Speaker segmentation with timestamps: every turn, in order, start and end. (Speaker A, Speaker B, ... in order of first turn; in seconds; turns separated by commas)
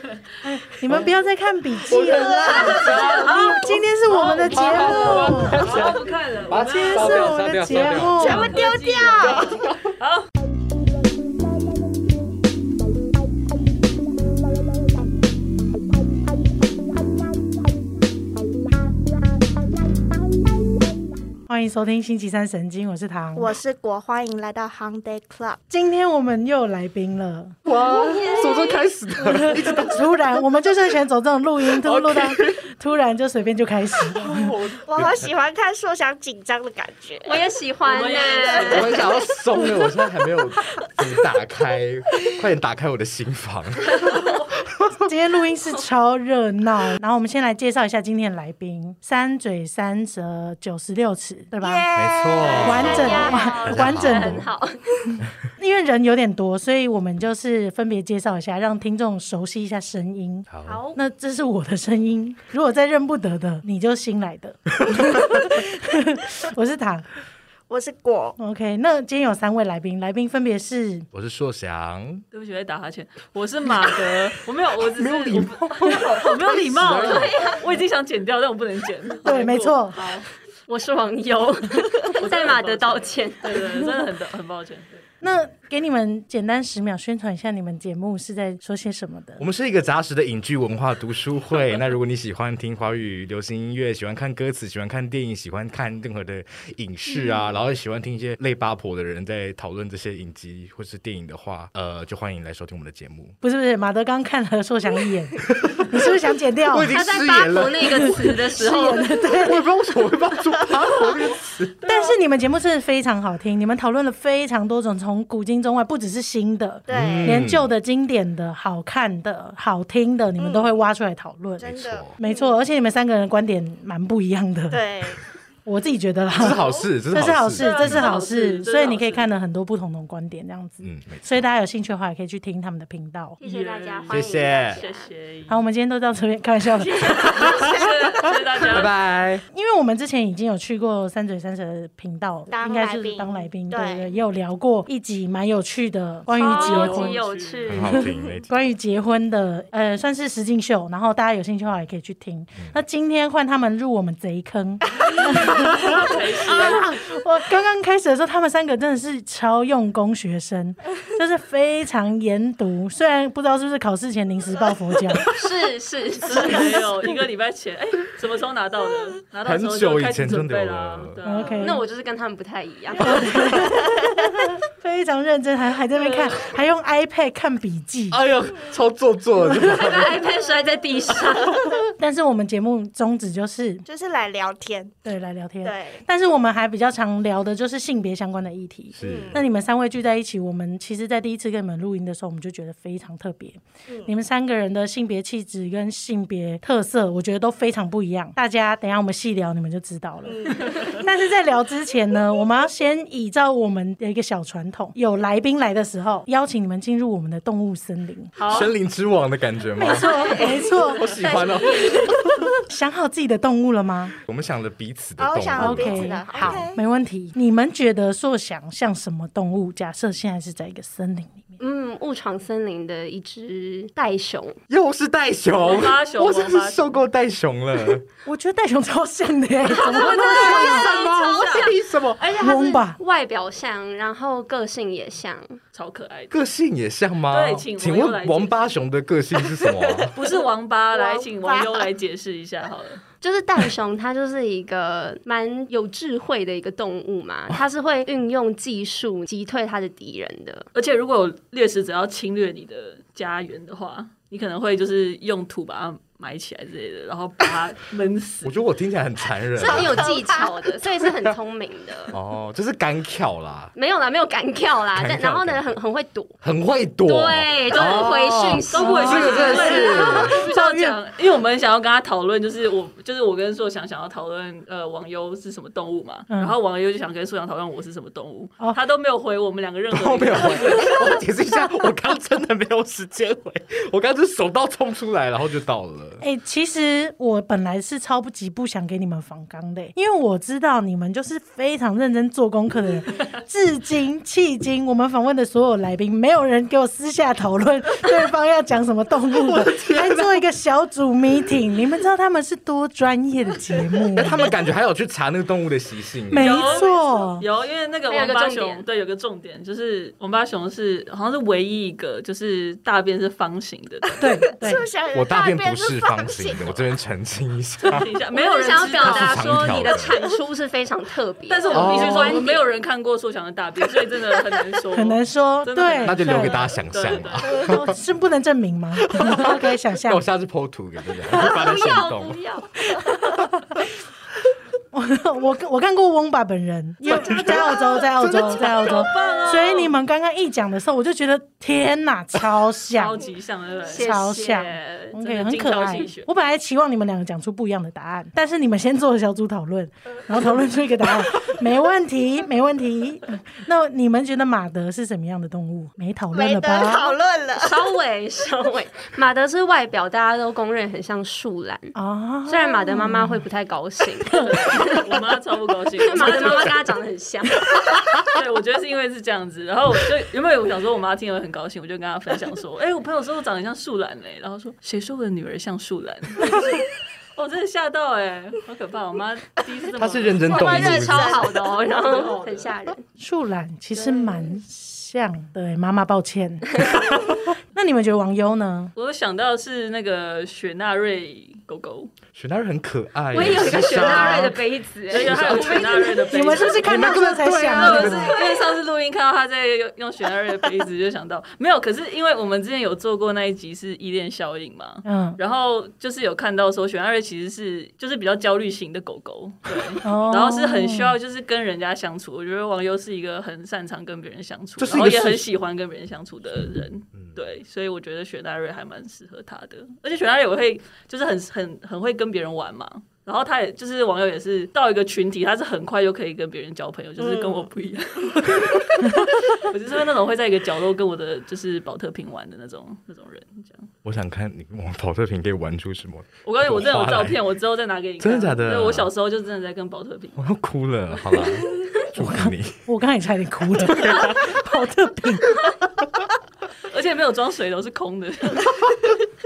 Speaker A: 0.4-5.6, Speaker B: 0.8-1.1, Speaker B: 1.9-3.4, Speaker C: 2.0-3.0, Speaker D: 2.5-7.3, Speaker B: 4.1-8.5, Speaker C: 5.0-5.3, Speaker A: 6.6-8.5, Speaker C: 8.0-9.6, Speaker D: 8.2-10.3, Speaker B: 9.2-9.9, Speaker A: 21.5-23.6, Speaker C: 23.4-25.6, Speaker A: 25.7-27.6, Speaker B: 27.6-30.2, Speaker E: 27.7-28.9, Speaker A: 29.2-34.5, Speaker B: 31.8-32.6, Speaker B: 34.0-35.3, Speaker C: 34.8-37.5, Speaker E: 37.2-39.1, Speaker D: 37.9-39.0, Speaker B: 38.7-44.2, Speaker E: 43.9-44.2, Speaker B: 44.7-45.0, Speaker A: 45.0-51.9, Speaker C: 51.6-53.6, Speaker B: 52.0-54.5, Speaker E: 52.2-54.8, Speaker A: 52.5-54.5, Speaker A: 55.2-67.2, Speaker B: 60.5-60.8, Speaker E: 60.7-61.0, Speaker C: 67.7-68.4, Speaker A: 68.4-71.1, Speaker B: 71.1-72.2, Speaker D: 72.3-80.3, Speaker B: 75.0-77.5, Speaker E: 76.9-77.7, Speaker A: 79.2-80.1, Speaker E: 80.7-83.9, Speaker D: 82.1-85.0, Speaker A: 85.2-89.4, Speaker B: 89.4-103.4, Speaker D: 91.6-91.8, Speaker A: 103.4-107.0, Speaker B: 105.5-106.0, Speaker B: 106.7-108.2, Speaker E: 106.9-109.3, Speaker A: 107.8-109.6, Speaker B: 109.4-111.8, Speaker A: 110.8-111.1, Speaker A: 111.8-124.8, Speaker C: 116.9-117.5, Speaker B: 116.9-117.7, Speaker C: 120.4-120.8, Speaker C: 121.6-122.5, Speaker B: 121.6-122.2, Speaker C: 124.7-125.2, Speaker A: 125.7-133.4, Speaker B: 126.3-128.1, Speaker D: 126.5-126.9, Speaker D: 127.6-129.3, Speaker B: 130.8-131.5, Speaker E: 133.4-135.1, Speaker D: 133.4-135.6, Speaker B: 134.1-134.8, Speaker A: 135.5-137.3, Speaker D: 137.0-138.9, Speaker B: 137.4-137.7, Speaker C: 137.5-137.9, Speaker B: 138.2-139.4, Speaker A: 139.5-147.2, Speaker C: 142.5-144.2, Speaker E: 146.3-148.1, Speaker D: 146.4-147.8, Speaker B: 147.7-148.5, Speaker A: 147.9-165.3, Speaker D: 155.1-156.9, Speaker E: 165.3-166.9, Speaker D: 166.2-171.7, Speaker A: 166.3-166.9, Speaker B: 169.4-171.2, Speaker A: 171.2-171.8, Speaker E: 171.6-173.9, Speaker A: 173.0-178.2, Speaker B: 178.1-180.2, Speaker A: 179.6-179.9, Speaker E: 179.6-181.7, Speaker A: 182.0-183.8, Speaker C: 183.8-185.0, Speaker A: 185.1-208.3, Speaker C: 185.6-186.1, Speaker B: 188.9-189.4, Speaker C: 189.0-189.4, Speaker C: 193.9-194.1, Speaker C: 200.2-201.0, Speaker D: 208.4-208.7, Speaker B: 208.5-212.5, Speaker A: 209.8-211.3, Speaker E: 209.8-212.5, Speaker A: 212.7-214.2, Speaker B: 214.3-216.6, Speaker C: 215.2-216.8, Speaker A: 215.6-221.6, Speaker E: 221.6-224.6, Speaker B: 224.7-228.1, Speaker D: 225.6-227.0, Speaker A: 228.2-230.9, Speaker E: 229.7-235.6, Speaker D: 230.0-231.7, Speaker B: 230.3-232.2, Speaker A: 232.4-233.0, Speaker D: 235.7-236.4, Speaker B: 236.3-240.2, Speaker D: 237.3-238.7, Speaker D: 240.1-243.0, Speaker C: 240.9-241.9, Speaker E: 243.2-250.7, Speaker D: 250.7-258.6, Speaker B: 258.4-260.1, Speaker E: 259.6-262.2, Speaker C: 259.7-260.5, Speaker B: 262.1-263.7, Speaker E: 263.8-266.4, Speaker B: 264.9-265.7, Speaker B: 266.4-270.4, Speaker E: 267.0-270.4, Speaker D: 267.7-281.0, Speaker A: 268.8-271.0, Speaker A: 276.3-276.6, Speaker B: 279.9-286.2, Speaker A: 286.2-304.5, Speaker B: 299.5-300.4, Speaker B: 304.2-306.6, Speaker A: 306.3-307.4, Speaker D: 306.4-314.2, Speaker C: 306.6-307.2, Speaker E: 308.1-308.8, Speaker A: 314.2-314.9, Speaker C: 314.5-316.9, Speaker B: 315.1-318.1, Speaker D: 317.8-320.0, Speaker E: 318.3-322.7, Speaker B: 318.9-320.2, Speaker D: 321.5-327.6, Speaker B: 321.7-322.4, Speaker A: 324.9-326.7, Speaker B: 326.0-328.0, Speaker A: 327.4-330.2, Speaker B: 329.0-332.4, Speaker E: 331.3-333.3, Speaker A: 333.0-333.5, Speaker A: 334.9-343.2, Speaker B: 337.1-337.8, Speaker D: 338.2-340.0, Speaker D: 342.9-344.1, Speaker E: 343.8-345.2, Speaker A: 343.9-357.1, Speaker D: 345.2-346.3, Speaker C: 356.3-357.8, Speaker E: 357.6-361.9, Speaker A: 361.9-363.4, Speaker E: 362.5-365.1, Speaker D: 364.3-366.8, Speaker E: 366.0-367.7, Speaker B: 366.2-366.7, Speaker D: 368.3-382.7, Speaker B: 380.0-381.4, Speaker E: 380.5-383.0, Speaker C: 380.5-381.6, Speaker A: 383.2-387.1, Speaker C: 384.0-384.4, Speaker A: 387.7-388.9, Speaker D: 388.9-392.1, Speaker B: 392.3-394.6, Speaker E: 393.3-398.6, Speaker D: 393.4-394.6, Speaker D: 395.1-396.9, Speaker B: 395.2-395.7, Speaker A: 395.7-398.2, Speaker B: 396.8-398.3, Speaker D: 397.7-433.9, Speaker A: 405.1-405.4, Speaker A: 410.0-411.2, Speaker B: 414.8-415.5, Speaker C: 427.2-427.7, Speaker B: 434.0-437.4, Speaker D: 436.4-440.5, Speaker B: 438.2-439.1, Speaker B: 440.4-442.8, Speaker D: 441.2-441.5, Speaker A: 442.2-445.7, Speaker B: 443.8-444.5, Speaker D: 446.9-448.7, Speaker B: 448.8-449.1